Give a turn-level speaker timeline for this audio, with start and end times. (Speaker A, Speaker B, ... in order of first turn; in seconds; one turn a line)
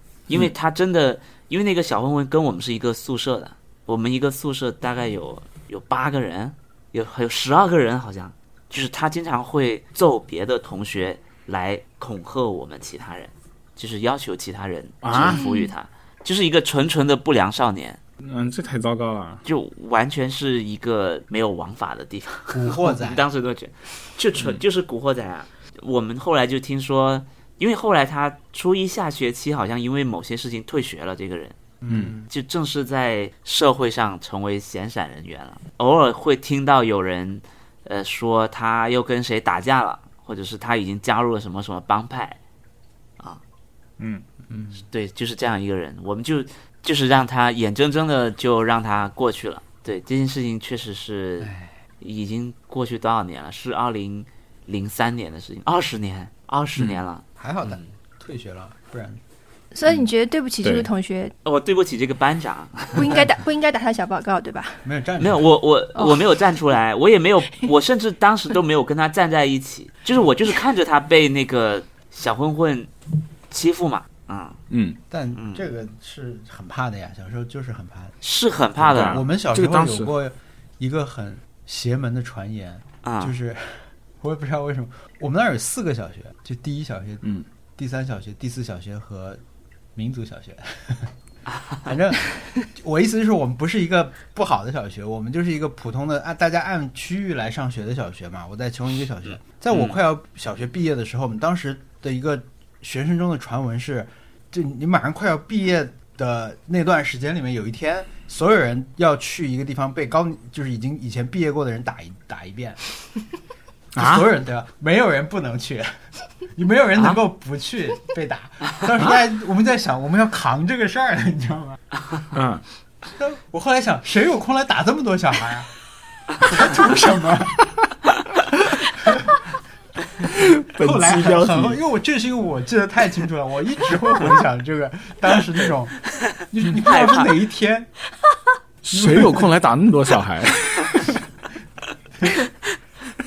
Speaker A: 0.3-18.0
Speaker B: 15.0-15.4
Speaker C: 15.1-15.7
Speaker B: 18.2-19.4
Speaker A: 19.4-31.6
Speaker D: 22.5-23.2
Speaker D: 31.8-32.3
Speaker A: 32.2-42.4
Speaker B: 44.0-44.2
Speaker D: 44.5-44.8
Speaker A: 44.8-57.9
Speaker D: 51.4-51.7
Speaker D: 57.4-59.2
Speaker C: 59.7-61.4
Speaker B: 60.6-60.9
Speaker A: 61.5-63.1
Speaker C: 62.9-64.8
Speaker D: 64.8-65.5
Speaker A: 65.2-72.9
Speaker C: 66.0-66.3
Speaker A: 73.5-74.6
Speaker B: 74.7-75.0
Speaker D: 75.1-78.2
Speaker A: 75.3-75.7
Speaker A: 78.2-79.2
Speaker D: 78.8-87.2
Speaker B: 78.9-80.1
Speaker A: 83.0-83.3
Speaker D: 87.8-89.4
Speaker D: 90.0-91.1
Speaker D: 91.8-112.8
Speaker A: 99.7-100.0
Speaker B: 114.0-114.3
Speaker D: 114.0-116.0
Speaker D: 116.6-121.8
Speaker B: 122.3-122.6
Speaker D: 123.2-125.7
Speaker D: 126.4-127.7
Speaker B: 130.2-131.8
Speaker D: 130.8-137.9
Speaker A: 136.8-137.3
Speaker B: 138.8-141.2
Speaker D: 138.9-139.5